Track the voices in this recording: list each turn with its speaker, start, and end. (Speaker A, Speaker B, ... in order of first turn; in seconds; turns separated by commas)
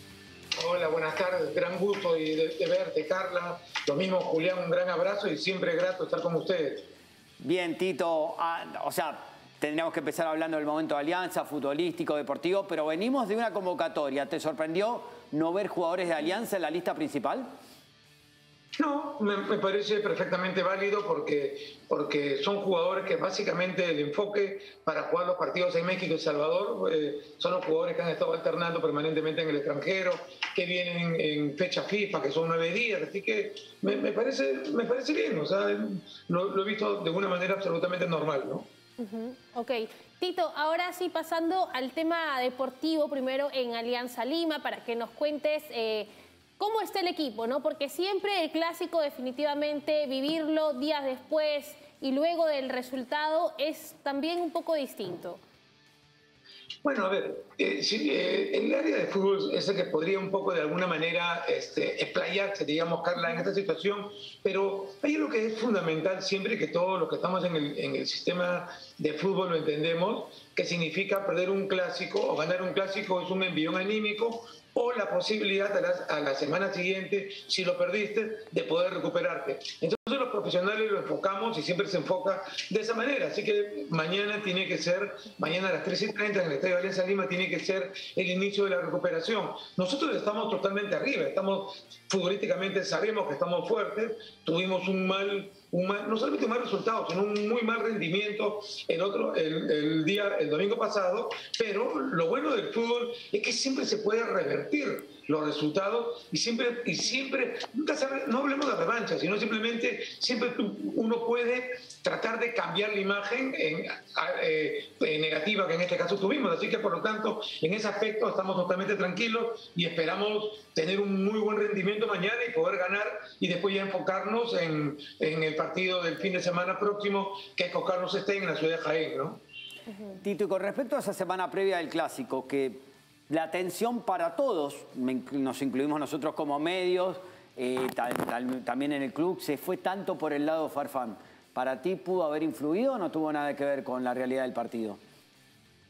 Speaker A: 0.6-6.9, Speaker B: 7.4-17.5, Speaker A: 18.8-38.7, Speaker C: 39.0-55.4, Speaker A: 56.8-129.4, Speaker B: 130.1-145.0